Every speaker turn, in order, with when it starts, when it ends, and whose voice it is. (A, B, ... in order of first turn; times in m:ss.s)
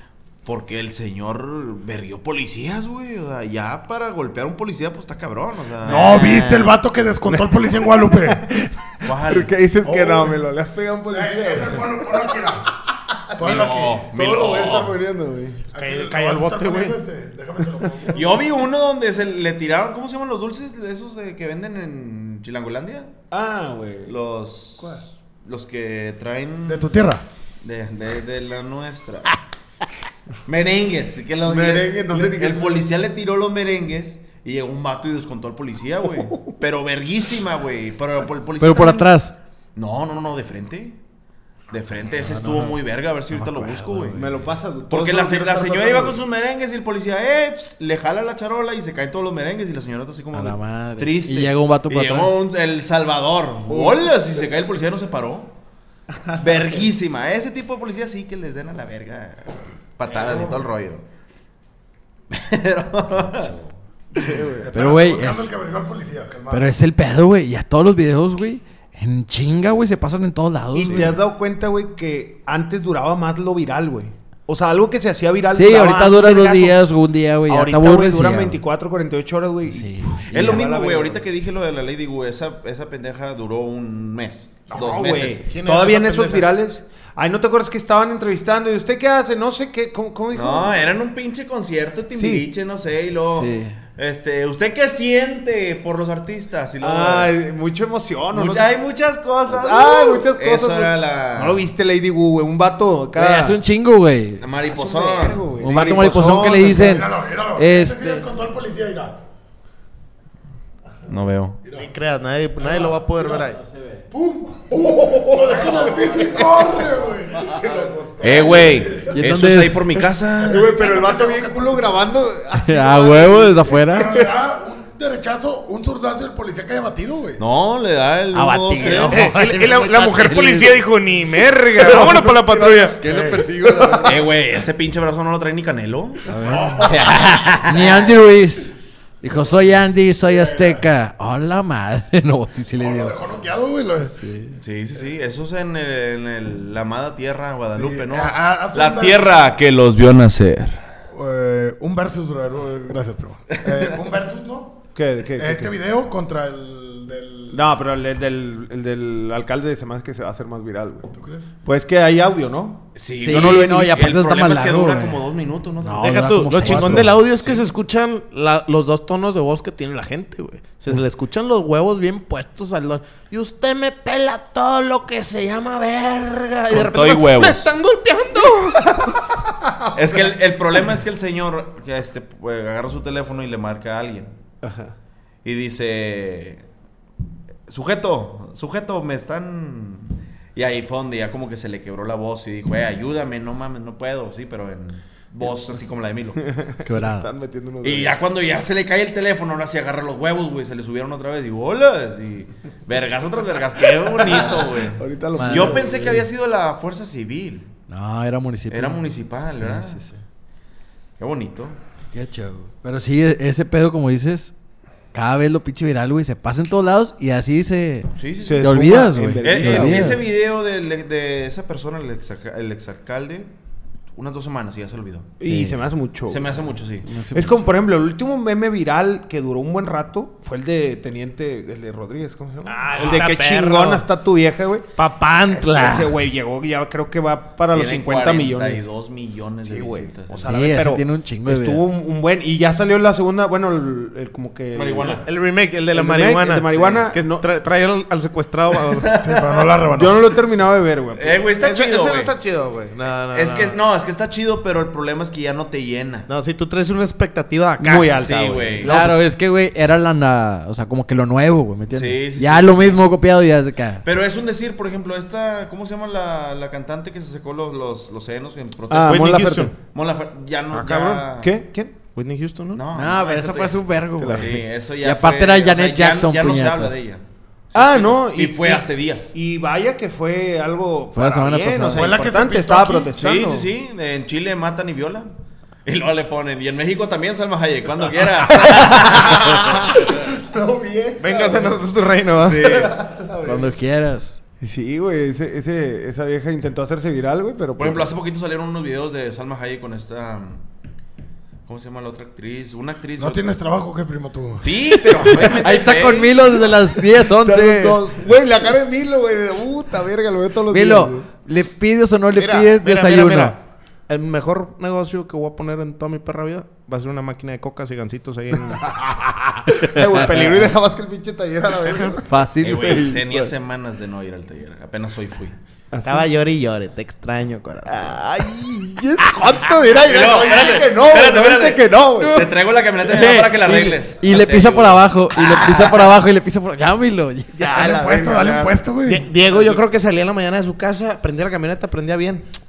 0:00.4-0:06.7 A
0:05.8-0:08.5 B
0:05.8-0:06.7 C
0:07.3-0:12.6 C
0:09.0-0:09.5 A
0:09.8-0:10.4 B
0:11.1-0:12.7 B
0:13.4-0:14.1 B
0:13.4-0:15.0 A
0:14.1-0:15.7 C
0:15.7-0:18.5 B
0:15.8-0:17.0 D
0:18.1-0:23.1 A
0:23.3-0:24.2 C
0:24.1-0:27.1 A
0:26.7-0:27.2 B
0:27.6-0:29.4 A
0:30.5-0:39.1 A
0:31.4-0:32.9 C
0:36.2-0:36.5 C
0:38.6-0:39.3 E
0:39.8-0:41.0 A
0:41.7-0:44.3 A
0:42.2-0:42.8 E
0:43.3-0:44.4 E
0:44.1-0:46.2 C
0:44.9-0:55.5 A
0:50.3-0:52.4 E
0:53.7-0:54.4 C
0:56.4-1:01.0 A
1:00.1-1:00.6 C
1:02.3-1:03.6 A
1:04.2-1:04.7 C
1:04.5-1:06.7 B
1:04.7-1:05.5 E
1:06.5-1:11.1 E
1:10.7-1:16.8 C
1:15.5-1:18.6 E
1:17.5-1:21.2 C
1:19.6-1:20.6 E
1:20.3-1:25.5 A
1:24.7-1:30.9 C
1:25.5-1:26.5 D
1:30.3-1:37.4 A
1:32.2-1:32.5 C
1:33.3-1:33.8 E
1:36.8-1:38.7 C
1:38.3-1:41.7 A
1:39.5-1:43.6 C
1:43.2-1:44.4 E
1:44.4-1:45.8 A
1:44.7-1:47.0 C
1:45.6-1:48.3 E
1:46.6-1:49.2 B
1:51.1-1:51.6 A
1:51.6-1:51.9 B
1:51.7-1:53.6 D
1:53.5-1:54.0 E
1:54.1-1:59.0 C
1:54.2-1:59.2 B
1:58.2-2:00.7 A
1:59.1-1:59.8 E
2:00.4-2:02.0 B
2:00.4-2:04.3 C
2:02.6-2:04.1 E
2:03.7-2:07.4 B
2:07.4-2:09.3 A
2:08.3-2:10.8 E
2:08.8-2:13.0 D
2:11.8-2:14.1 B
2:13.0-2:14.3 E
2:14.0-2:16.2 A
2:16.3-2:23.2 E
2:16.4-2:17.3 B
2:16.8-2:18.1 A
2:20.3-2:20.8 B
2:22.8-2:24.1 B
2:24.1-2:24.6 E
2:24.6-2:30.9 A
2:27.7-2:29.4 B
2:31.1-2:34.8 B
2:35.0-2:35.7 C
2:35.4-2:37.7 B
2:37.5-2:41.1 C
2:41.1-2:41.5 B
2:41.6-2:44.0 C
2:43.0-2:46.2 A
2:43.2-2:45.2 E
2:45.8-2:47.2 E
2:46.0-2:59.2 D
2:46.7-2:47.1 B
2:56.7-2:57.7 A
2:59.9-3:04.3 A
3:04.6-3:04.9 C
3:05.4-3:06.6 A
3:07.7-3:16.4 A
3:16.4-3:18.2 C
3:16.8-3:17.3 E
3:17.8-3:27.7 A
3:24.3-3:26.2 C
3:25.4-3:26.0 E
3:27.9-3:29.0 E
3:28.7-3:30.0 A
3:29.6-3:30.2 E
3:31.2-3:31.8 A
3:32.1-3:34.5 E
3:35.1-3:40.2 E
3:38.2-3:38.7 A
3:38.4-3:40.2 C
3:39.4-3:43.5 A
3:44.1-3:45.3 A
3:45.4-3:46.6 C
3:45.5-3:45.8 E
3:46.3-3:47.1 A
3:47.0-3:47.6 E
3:47.3-3:58.9 C
3:52.8-3:54.0 D
3:55.0-3:56.2 D
3:57.7-4:00.5 A
3:59.6-4:05.2 C
4:00.5-4:01.8 E
4:04.7-4:05.2 A
4:05.2-4:09.2 D
4:05.9-4:07.4 C
4:08.8-4:09.8 A
4:09.2-4:10.3 B
4:09.9-4:11.4 C
4:11.2-4:12.3 A
4:11.6-4:13.8 D
4:13.3-4:16.3 A
4:16.3-4:18.3 D
4:17.8-4:19.2 C
4:18.2-4:19.0 A
4:18.8-4:19.1 D
4:18.8-4:24.0 E
4:21.9-4:23.0 A
4:24.0-4:31.5 A
4:28.9-4:29.7 C
4:29.0-4:29.7 D
4:30.7-4:31.2 D
4:31.3-4:32.0 C
4:32.1-4:32.8 D
4:32.7-4:39.3 A
4:32.9-4:37.0 E
4:34.2-4:34.6 C
4:37.8-4:43.7 C
4:41.2-4:42.1 E
4:41.9-4:43.1 B
4:43.2-4:45.3 A
4:45.8-4:50.0 A
4:50.1-4:51.8 C
4:51.2-4:52.9 D
4:52.4-4:53.0 A
4:52.6-4:53.7 C
4:53.4-4:54.4 E
4:54.6-4:58.1 C
4:57.8-5:00.6 A
5:01.7-5:03.5 A
5:03.2-5:04.7 B
5:04.6-5:06.8 A
5:04.9-5:08.0 E
5:07.2-5:11.3 C
5:10.7-5:13.6 E
5:12.4-5:19.0 D
5:18.8-5:22.2 C
5:20.1-5:20.7 D
5:21.9-5:22.2 D
5:22.2-5:23.2 E
5:22.6-5:25.6 A
5:22.8-5:23.5 C
5:25.9-5:26.3 C
5:26.0-5:28.2 D
5:27.9-5:32.5 C
5:29.2-5:29.8 D
5:30.0-5:35.1 A
5:33.0-5:37.6 E
5:37.6-5:42.5 D
5:37.7-5:39.3 B
5:37.8-5:38.6 C